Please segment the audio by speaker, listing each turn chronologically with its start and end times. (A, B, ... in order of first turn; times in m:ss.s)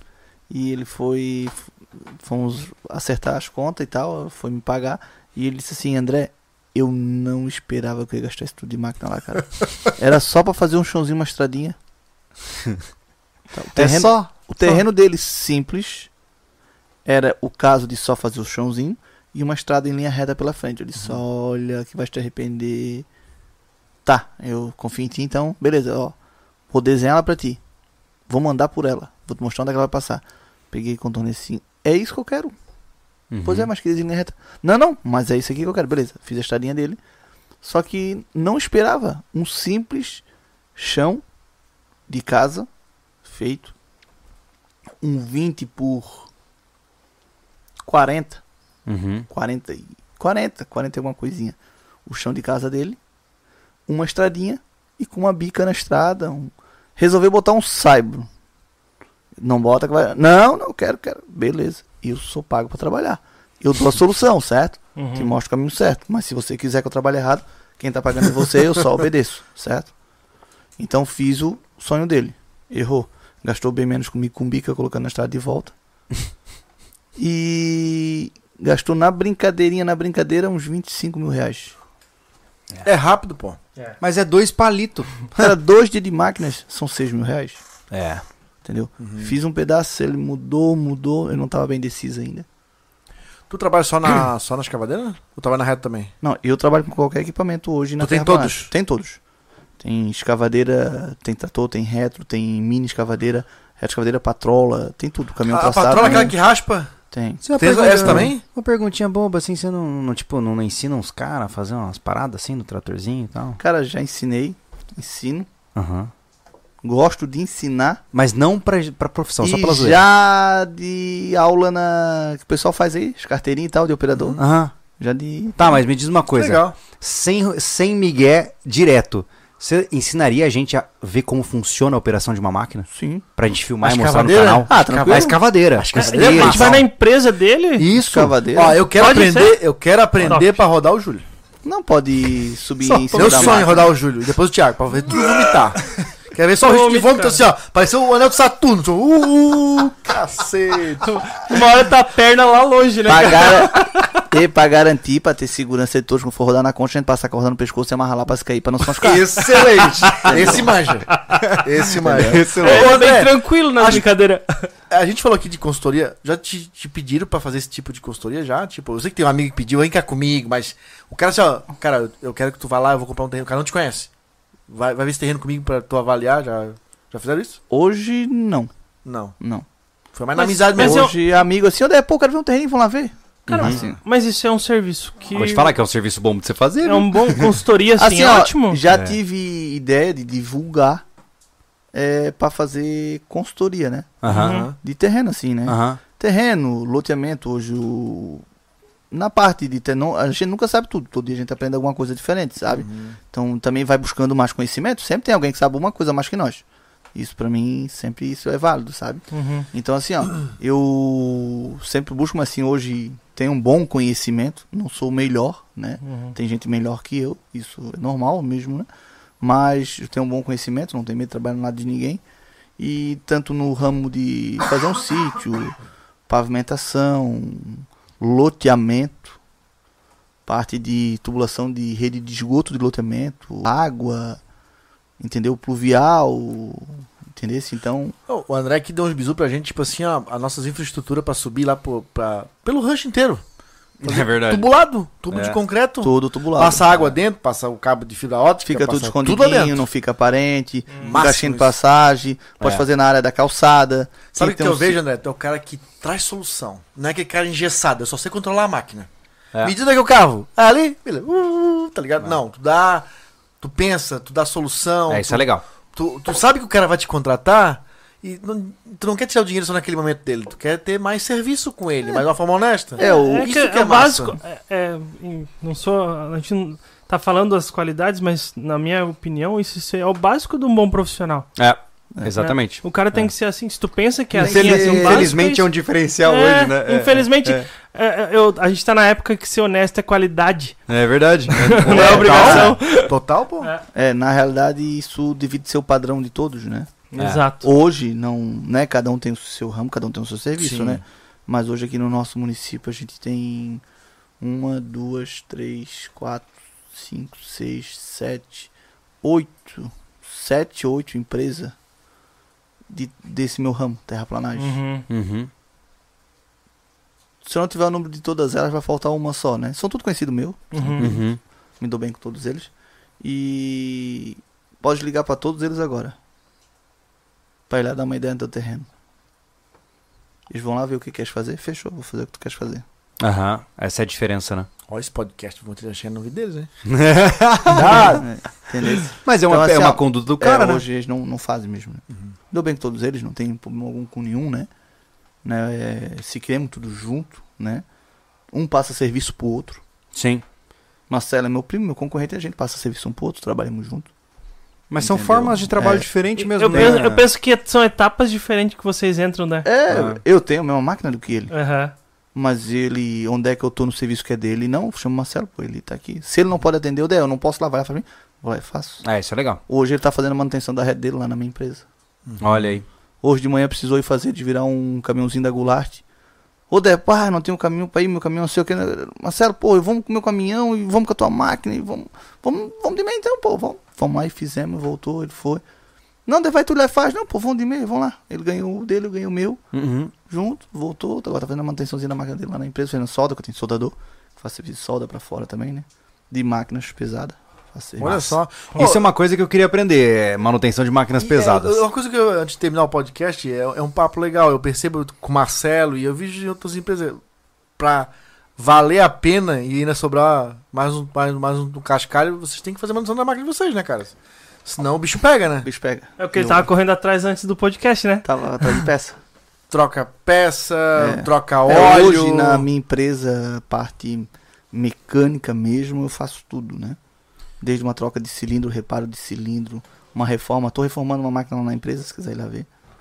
0:00.5-0:11.8 A
0:13.5-0:16.1 A
0:13.7-0:14.3 B
0:17.0-0:23.1 A
0:24.0-0:26.1 A
0:26.7-0:27.6 A
0:28.3-0:32.5 A
0:33.3-0:33.7 B
0:33.4-0:37.0 A
0:37.6-0:40.2 A
0:40.8-0:41.2 A
0:42.1-0:42.7 A
0:43.2-0:43.7 A
0:45.0-0:46.3 A
0:47.8-0:48.4 A
0:48.8-0:49.3 B
0:49.3-0:53.0 A
0:53.9-0:58.3 A
0:59.4-1:09.9 A
1:05.0-1:05.3 C
1:10.8-1:15.7 A
1:17.2-1:21.7 A
1:22.8-1:23.6 D
1:24.0-1:25.5 B
1:25.3-1:27.6 A
1:27.9-1:28.2 B
1:28.6-1:32.4 A
1:29.0-1:29.3 D
1:33.5-1:36.1 D
1:36.2-1:39.2 A
1:38.0-1:38.7 D
1:39.8-1:46.4 A
1:45.5-1:46.9 D
1:46.0-1:46.3 B
1:47.1-1:47.4 A
1:47.4-1:53.6 B
1:47.5-1:48.4 D
1:48.0-1:48.3 A
1:53.6-1:55.5 A
1:55.7-1:56.1 B
1:56.8-1:58.0 A
1:58.1-2:00.0 B
1:59.4-2:04.4 A
2:04.1-2:04.4 D
2:04.4-2:04.7 B
2:05.0-2:05.8 A
2:05.6-2:16.8 B
2:06.3-2:06.7 D
2:12.9-2:13.2 A
2:13.8-2:16.8 D
2:14.7-2:15.4 A
2:15.9-2:17.9 C
2:17.8-2:21.2 D
2:17.9-2:18.9 A
2:18.9-2:19.6 C
2:20.2-2:20.6 C
2:21.6-2:23.9 A
2:22.8-2:31.2 D
2:23.1-2:23.6 C
2:26.6-2:27.4 C
2:31.0-2:34.2 C
2:33.0-2:39.5 A
2:39.0-2:40.7 B
2:39.4-2:40.0 C
2:40.1-2:40.8 A
2:40.3-2:44.0 D
2:41.2-2:41.6 C
2:42.0-2:42.4 A
2:42.0-2:43.0 B
2:42.6-2:44.7 C
2:44.9-2:54.1 D
2:54.7-2:57.6 D
2:57.7-2:58.7 A
2:59.0-2:59.4 D
2:59.4-2:59.6 A
3:00.1-3:01.1 D
3:00.3-3:01.2 C
3:00.8-3:04.0 A
3:03.5-3:03.8 B
3:03.5-3:05.7 C
3:05.3-3:07.6 B
3:06.8-3:08.8 C
3:08.0-3:11.0 A
3:08.9-3:09.2 B
3:11.9-3:14.2 A
3:14.2-3:14.6 B
3:14.2-3:14.8 D
3:14.3-3:14.7 C
3:14.7-3:18.4 A
3:15.6-3:16.0 B
3:19.1-3:26.6 A
3:22.7-3:23.2 D
3:27.1-3:38.9 A
3:29.3-3:29.7 C
3:36.0-3:36.3 C
3:39.4-3:42.2 A
3:42.8-3:45.8 A
3:46.3-3:49.4 A
3:50.4-3:54.4 A
3:55.2-3:58.1 A
3:58.3-4:03.4 D
4:04.0-4:04.7 B
4:04.0-4:09.9 D
4:05.3-4:05.6 B
4:06.0-4:07.1 A
4:08.6-4:15.0 A
4:10.9-4:11.1 C
4:11.0-4:11.7 D
4:12.6-4:12.8 B
4:14.4-4:19.1 D
4:19.6-4:23.0 D
4:23.6-4:34.4 D
4:25.1-4:25.6 B
4:33.0-4:33.5 A
4:33.0-4:41.5 C
4:41.6-4:43.3 B
4:42.4-4:45.7 C
4:44.3-4:45.3 A
4:44.4-4:47.6 B
4:46.2-4:50.8 C
4:50.9-4:52.8 B
4:51.5-4:53.8 C
4:51.9-4:53.7 D
4:53.9-4:56.9 A
4:57.1-4:57.7 C
4:57.2-4:57.4 B
4:57.6-5:03.8 A
5:00.6-5:01.0 D
5:04.4-5:08.7 A
5:09.2-5:11.7 A
5:12.9-5:14.8 A
5:14.6-5:15.0 C
5:15.1-5:15.5 B
5:17.4-5:21.2 A
5:20.7-5:21.2 C
5:21.0-5:21.4 B
5:21.8-5:26.1 A
5:27.7-5:28.9 A
5:30.5-5:32.8 A
5:33.2-5:34.7 B
5:34.9-5:36.7 D
5:36.8-5:38.2 B
5:37.7-5:38.3 D
5:37.9-5:44.7 A
5:39.2-5:40.8 B
5:45.4-5:47.8 A
5:48.5-5:49.8 A
5:50.1-5:50.4 B
5:51.1-5:54.1 A
5:54.9-5:57.2 B
5:55.0-5:56.1 A
5:56.4-5:59.7 C
5:56.7-5:57.0 A
5:59.6-6:01.5 A
5:59.9-6:00.2 B
6:01.5-6:01.9 C
6:02.3-6:09.0 A
6:09.0-6:09.6 B
6:09.7-6:11.8 A
6:12.2-6:12.8 D
6:12.4-6:12.8 B
6:13.2-6:16.0 A
6:16.7-6:25.6 A
6:26.2-6:29.6 A
6:29.7-6:30.1 B
6:30.3-6:38.4 A
6:38.0-6:39.0 D
6:38.7-6:41.8 B
6:41.2-6:47.2 D
6:47.8-6:54.1 D
6:54.6-6:55.7 D
6:55.6-6:56.7 A
6:56.2-6:58.8 C
6:58.2-6:59.2 A
6:59.7-7:02.7 D
7:01.0-7:07.0 A
7:01.9-7:02.1 B
7:07.6-7:12.7 A